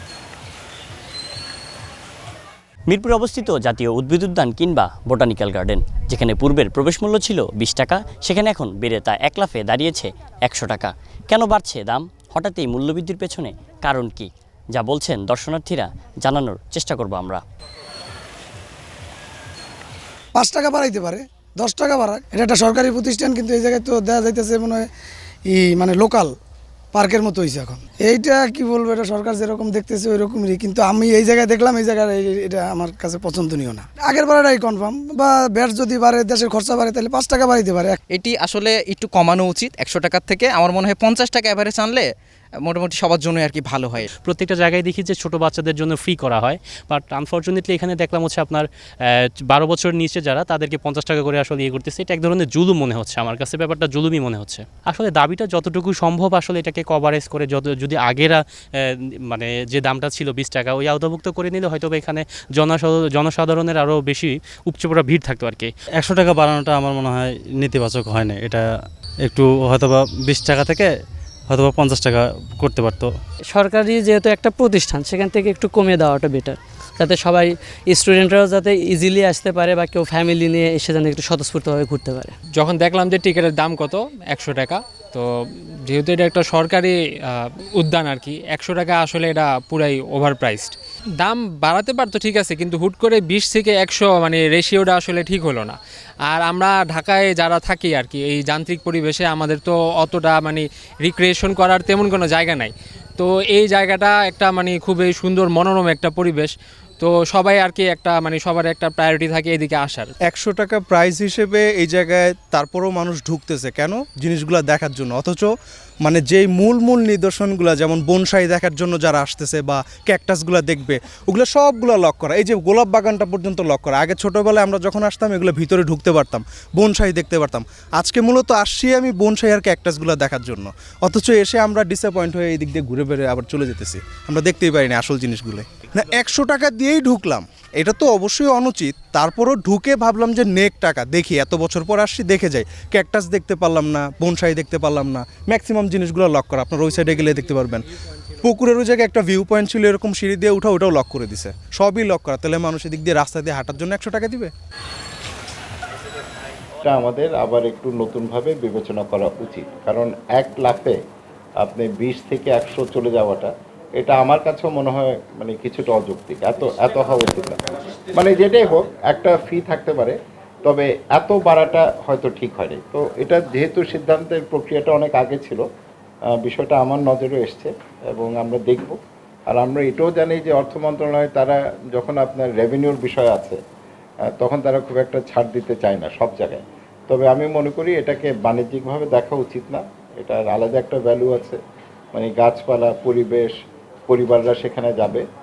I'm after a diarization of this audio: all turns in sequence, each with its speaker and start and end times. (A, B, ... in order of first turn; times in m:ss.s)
0:02.9-0:17.4 A
0:20.3-0:24.8 B
0:25.5-0:26.3 B
0:26.9-0:38.0 B
0:38.1-0:42.1 C
0:42.6-0:44.1 C
0:44.2-1:05.7 D
1:06.0-1:08.6 E
1:09.2-1:10.9 E
1:11.5-1:13.1 E
1:13.5-1:22.3 F
1:22.5-1:35.8 G
1:36.3-1:50.1 G
1:50.3-1:55.5 H
1:56.0-2:27.8 H
2:28.4-2:34.5 H
2:36.8-2:41.0 I
2:41.6-2:47.6 I
2:48.1-2:55.6 I
2:56.4-2:59.0 I
2:59.5-3:03.6 I
3:04.4-3:11.6 I
3:12.1-3:13.5 I
3:14.1-3:15.2 I